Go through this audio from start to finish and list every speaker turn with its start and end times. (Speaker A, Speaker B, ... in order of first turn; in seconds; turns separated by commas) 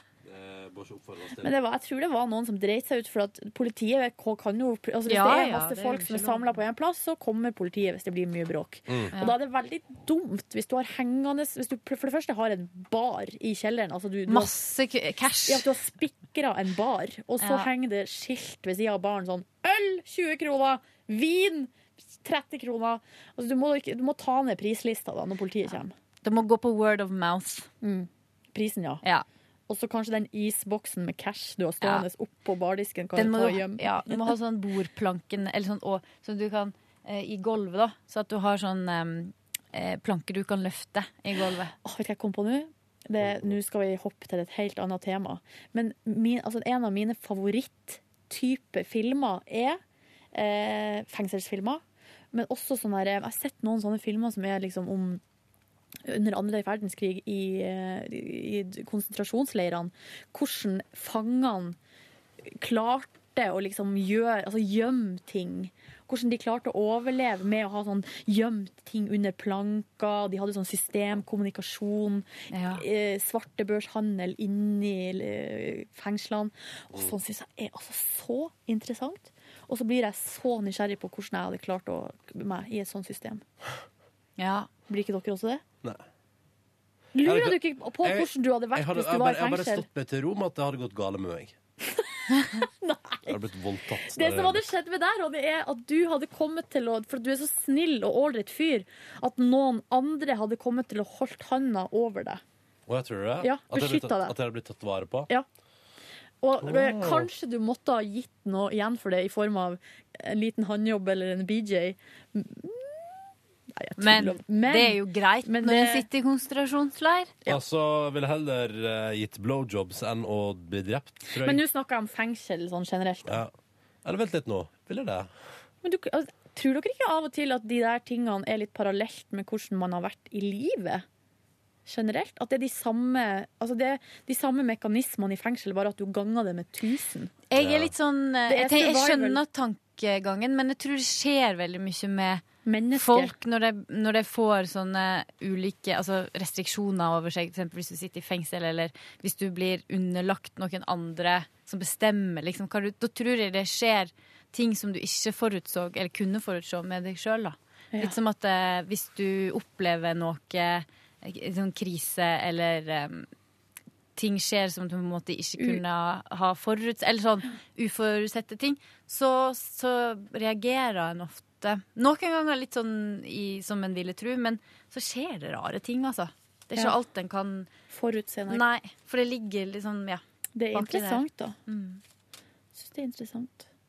Speaker A: 0.2-1.5, Speaker B: 1.4-14.5, Speaker C: 5.1-6.5, Speaker A: 8.9-9.1, Speaker C: 14.3-15.7, Speaker B: 15.5-21.7, Speaker C: 17.4-17.7, Speaker B: 22.2-25.9, Speaker C: 26.2-27.7, Speaker B: 27.8-29.0, Speaker B: 29.7-34.3, Speaker C: 33.1-41.7, Speaker B: 41.8-49.8, Speaker A: 43.2-43.5, Speaker B: 50.3-51.8, Speaker B: 52.3-55.2, Speaker B: 56.0-61.8, Speaker B: 62.5-83.4, Speaker C: 72.5-72.8, Speaker C: 84.4-84.7, Speaker B: 84.9-85.6, Speaker B: 87.1-89.8, Speaker A: 87.2-91.5, Speaker B: 92.0-93.4, Speaker A: 93.3-94.7, Speaker B: 94.1-102.4, Speaker A: 102.9-105.3, Speaker B: 103.4-104.3, Speaker B: 106.4-113.2, Speaker A: 106.6-107.3, Speaker B: 113.8-116.1, Speaker C: 114.0-117.4, Speaker A: 117.5-121.6, Speaker B: 121.4-123.4, Speaker A: 123.3-123.5, Speaker A: 124.0-125.3, Speaker B: 125.8-131.1, Speaker B: 131.8-137.3, Speaker C: 137.5-163.3, Speaker A: 137.6-137.9, Speaker B: 138.5-139.4, Speaker B: 142.6-143.3, Speaker C: 164.2-177.7, Speaker B: 177.9-178.6, Speaker C: 178.5-182.0, Speaker B: 180.6-181.6, Speaker B: 182.8-183.7